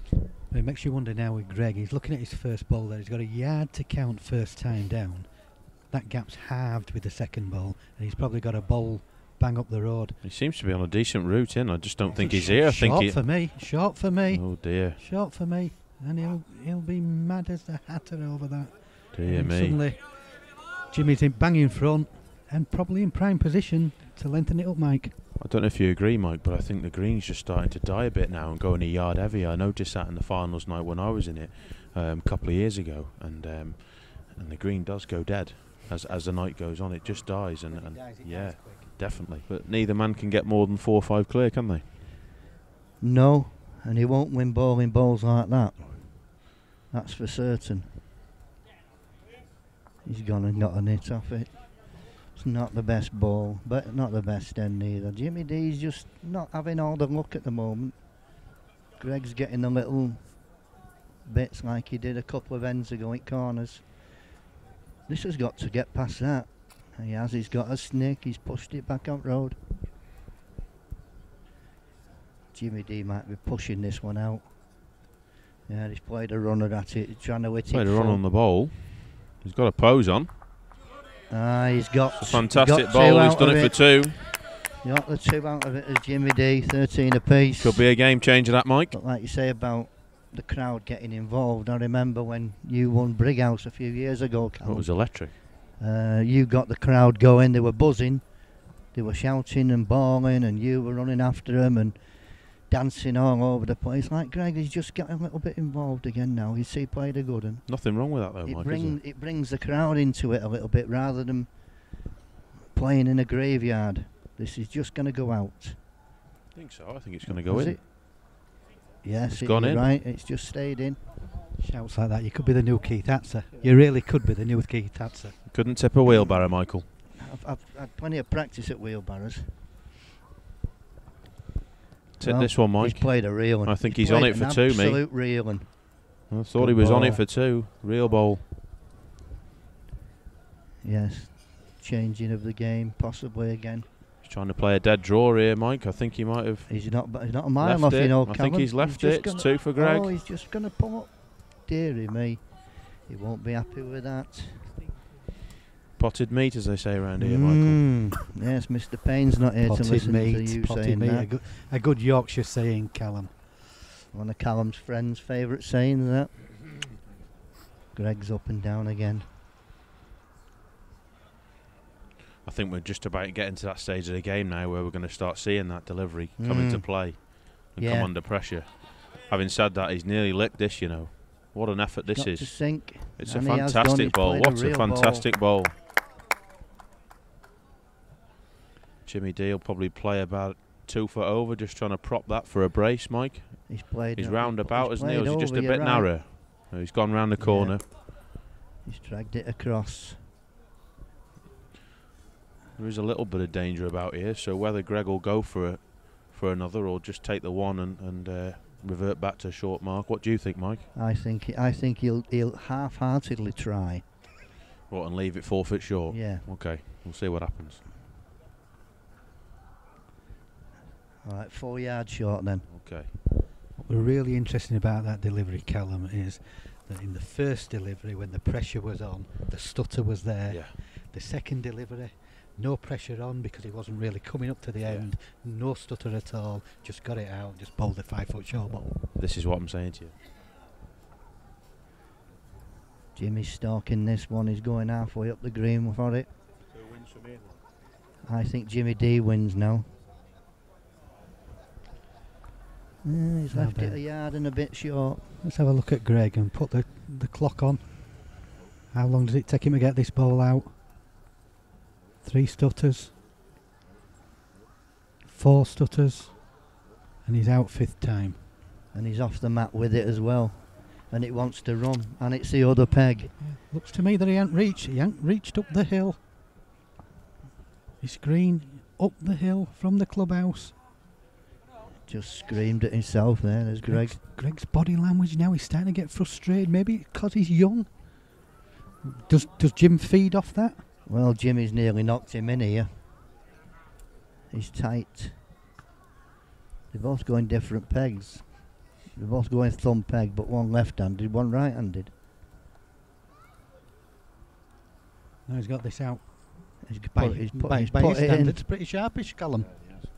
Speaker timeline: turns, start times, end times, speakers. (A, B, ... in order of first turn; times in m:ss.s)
0:00.5-0:10.2 A
0:10.2-0:15.0 B
0:12.1-0:25.2 A
0:19.1-0:19.8 B
0:25.4-0:41.9 B
0:37.0-0:39.1 A
0:43.0-0:48.0 C
0:50.0-0:58.4 C
0:59.0-1:04.3 C
1:05.1-1:09.6 C
1:12.5-1:14.5 C
1:15.7-1:18.2 C
1:17.7-1:20.3 B
1:21.3-1:27.8 C
1:22.2-1:24.4 B
1:27.6-1:29.0 B
1:28.9-1:51.9 C
1:34.6-1:35.3 B
1:47.7-1:49.0 B
1:52.7-1:55.8 C
1:56.5-1:57.8 B
1:57.2-1:58.4 C
1:59.0-2:01.0 C
1:59.4-1:59.8 B
2:01.6-2:05.4 A
2:05.5-2:06.9 B
2:06.1-2:09.7 C
2:12.2-2:15.0 B
2:12.2-2:17.2 C
2:16.3-2:18.4 B
2:20.8-2:23.9 C
2:24.2-2:30.1 B
2:26.7-2:34.8 C
2:36.0-2:37.9 B
2:37.2-2:41.3 C
2:39.6-2:43.8 A
2:44.1-2:46.8 C
2:47.9-2:49.3 C
2:52.4-3:05.7 B
2:56.4-2:58.1 C
3:02.1-3:05.3 C
3:09.0-3:17.8 B
3:13.7-3:16.3 C
3:17.4-3:20.3 C
3:22.8-3:30.9 B
3:30.9-3:34.0 C
3:34.9-3:37.8 B
3:36.1-3:36.5 C
3:41.2-3:42.7 C
3:42.7-3:43.1 B
3:43.8-3:59.1 A
3:50.5-3:50.8 B
3:54.8-3:55.1 B
3:59.2-4:00.1 B
4:03.1-4:06.3 C
4:08.2-4:09.9 C
4:13.0-4:15.4 C
4:13.5-4:14.0 A
4:15.4-4:20.8 A
4:22.2-4:23.2 A
4:25.2-4:26.7 A
4:27.2-4:28.4 A
4:28.9-4:33.3 C
4:33.4-4:36.2 A
4:38.0-4:40.8 A
4:42.0-4:44.2 C
4:43.8-4:48.5 A
4:49.0-4:50.8 A
4:51.0-4:53.0 C
4:54.5-4:55.4 C
4:56.9-5:02.1 C
5:05.5-5:09.9 A
5:06.8-5:08.6 C